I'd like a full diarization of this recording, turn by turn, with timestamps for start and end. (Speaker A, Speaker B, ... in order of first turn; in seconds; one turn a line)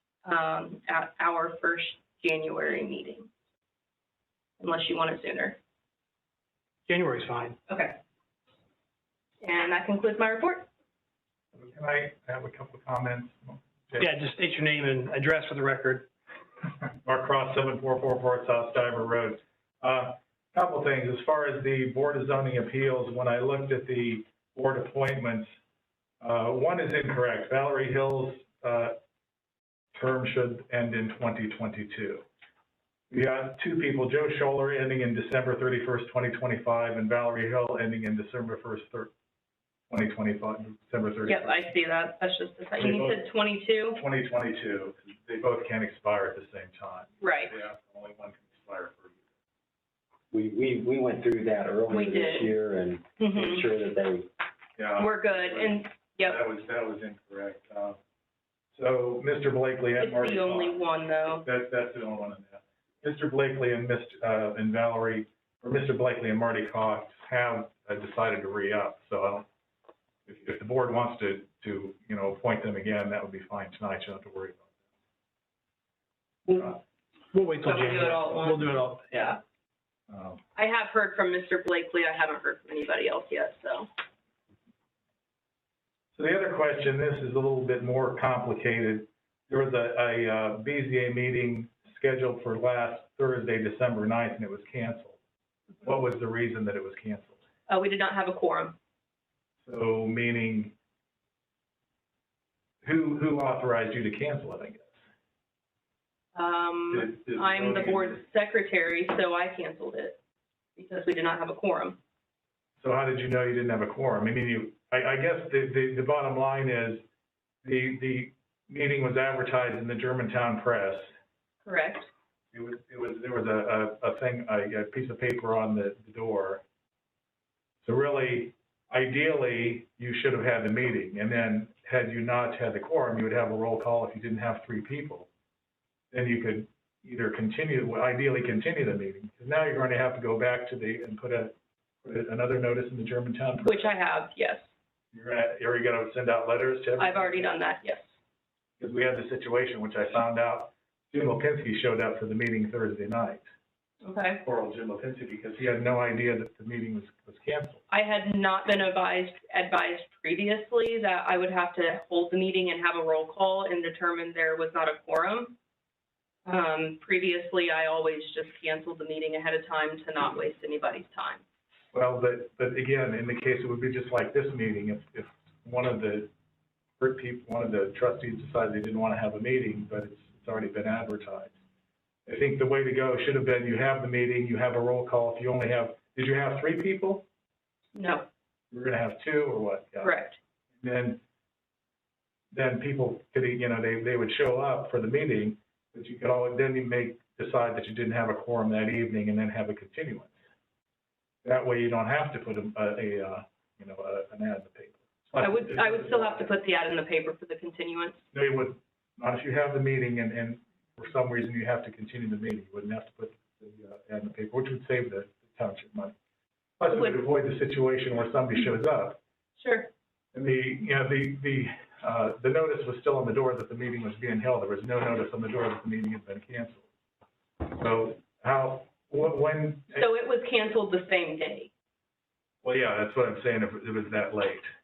Speaker A: 0.2-3.3
Speaker A: 4.6-5.6
Speaker B: 6.9-7.6
Speaker A: 7.7-7.9
Speaker A: 9.4-10.7
Speaker C: 11.6-14.1
Speaker B: 14.0-16.1
Speaker C: 17.0-25.5
Speaker C: 26.2-28.9
Speaker C: 29.9-32.2
Speaker C: 33.1-39.1
Speaker C: 39.9-41.6
Speaker A: 41.2-44.0
Speaker C: 42.8-43.3
Speaker C: 44.0-49.2
Speaker A: 47.2-47.5
Speaker D: 50.3-54.3
Speaker A: 51.9-52.5
Speaker A: 53.2-53.6
Speaker C: 54.8-58.0
Speaker A: 55.0-56.4
Speaker C: 58.7-60.8
Speaker A: 60.0-61.5
Speaker C: 61.4-69.5
Speaker C: 70.2-74.7
Speaker B: 77.3-79.4
Speaker A: 77.6-78.7
Speaker C: 80.1-80.4
Speaker A: 80.5-83.9
Speaker C: 86.2-95.2
Speaker C: 95.8-97.4
Speaker A: 97.7-98.8
Speaker C: 99.6-100.7
Speaker C: 102.8-105.0
Speaker A: 106.3-110.2
Speaker C: 106.9-108.2
Speaker A: 110.8-112.0
Speaker C: 112.8-117.0
Speaker C: 117.6-121.1
Speaker A: 121.6-122.1
Speaker C: 122.5-126.6
Speaker C: 127.8-135.3
Speaker C: 136.1-143.9
Speaker A: 143.6-144.7
Speaker C: 145.1-147.5
Speaker A: 147.0-148.1
Speaker C: 148.8-153.4
Speaker A: 154.0-154.4
Speaker C: 154.4-157.8
Speaker A: 157.9-165.5
Speaker A: 166.4-171.4
Speaker C: 171.9-176.3
Speaker C: 177.0-181.5
Speaker C: 182.3-187.2
Speaker A: 187.9-188.2
Speaker C: 188.7-190.1
Speaker A: 190.0-190.4
Speaker C: 190.8-191.2
Speaker C: 192.5-200.4
Speaker C: 201.4-206.4
Speaker A: 205.4-208.2
Speaker C: 208.3-216.1
Speaker C: 216.8-219.2
Speaker A: 216.9-217.2
Speaker A: 219.6-219.9
Speaker C: 220.3-226.8
Speaker C: 227.6-230.0
Speaker A: 229.9-231.7
Speaker C: 232.6-234.7